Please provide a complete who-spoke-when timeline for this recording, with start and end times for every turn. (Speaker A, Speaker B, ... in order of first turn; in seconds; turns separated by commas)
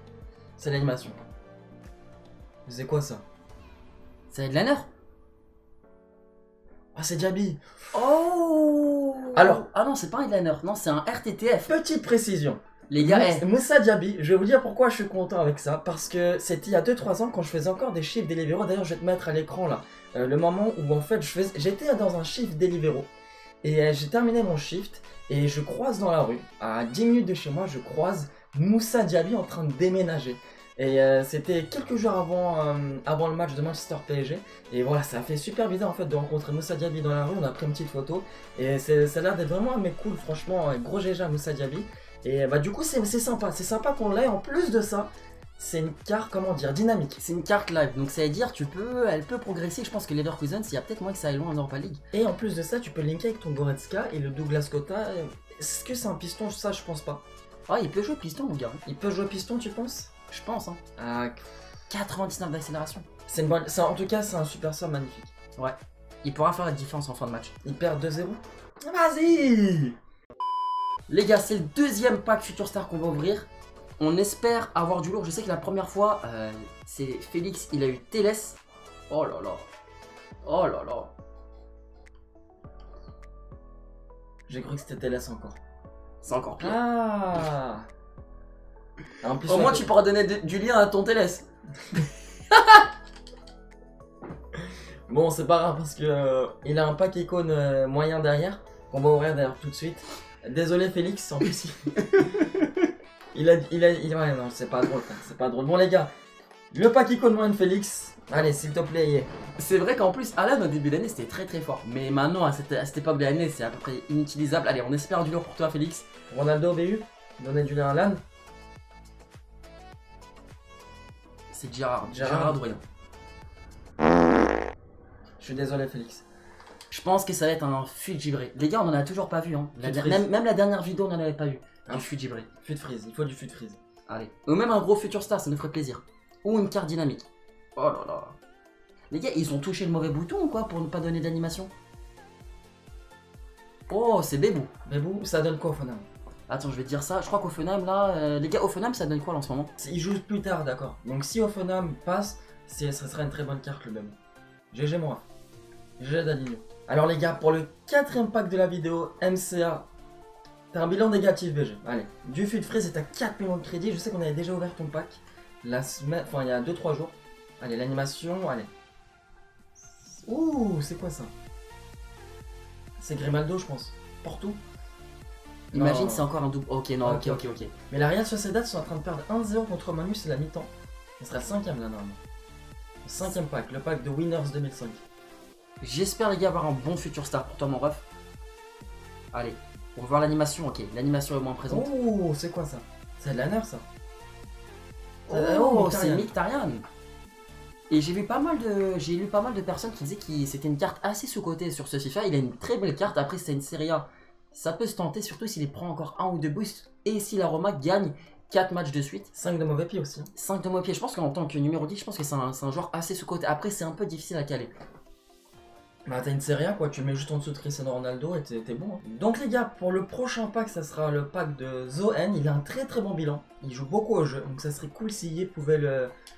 Speaker A: 0.6-1.2, Speaker A: 2.6-3.2, Speaker B: 4.3-4.9, Speaker A: 6.9-7.6, Speaker B: 7.9-11.7, Speaker A: 9.3-9.6, Speaker A: 11.7-23.1, Speaker B: 12.9-13.4, Speaker A: 23.6-47.2, Speaker B: 47.1-52.0, Speaker A: 52.1-57.2, Speaker B: 57.7-58.8, Speaker A: 58.8-60.1, Speaker B: 60.3-60.8, Speaker A: 61.0-61.6, Speaker B: 61.9-63.1, Speaker A: 63.3-65.3, Speaker B: 65.6-67.5, Speaker A: 67.6-69.9, Speaker B: 71.1-78.6, Speaker B: 79.1-79.7, Speaker B: 80.4-81.1, Speaker A: 84.5-85.6, Speaker B: 86.2-86.8, Speaker A: 86.6-87.9, Speaker A: 89.2-89.9, Speaker B: 89.5-91.5, Speaker B: 92.5-92.8, Speaker A: 95.1-102.5, Speaker B: 102.0-102.4, Speaker A: 103.3-106.1, Speaker A: 106.7-109.3, Speaker B: 109.6-116.0, Speaker A: 116.3-118.2, Speaker B: 121.5-122.8, Speaker A: 122.1-122.8, Speaker A: 125.4-126.2, Speaker B: 126.9-132.5, Speaker A: 129.8-130.3, Speaker A: 132.6-133.8, Speaker B: 134.1-138.3, Speaker B: 139.1-141.7, Speaker B: 143.9-144.7, Speaker A: 144.8-146.0, Speaker B: 146.5-149.7, Speaker A: 149.8-154.1, Speaker A: 154.7-155.2, Speaker A: 156.0-159.9, Speaker A: 160.7-168.7, Speaker A: 170.2-171.3, Speaker A: 173.0-174.6, Speaker A: 175.7-176.3, Speaker B: 175.7-177.7, Speaker A: 177.0-182.2, Speaker A: 183.0-185.0, Speaker B: 185.8-188.0, Speaker B: 189.3-191.9, Speaker A: 191.7-193.8, Speaker B: 195.3-196.8, Speaker A: 195.3-196.3, Speaker B: 197.9-209.3, Speaker A: 209.3-210.3, Speaker B: 210.3-214.7, Speaker A: 216.1-226.1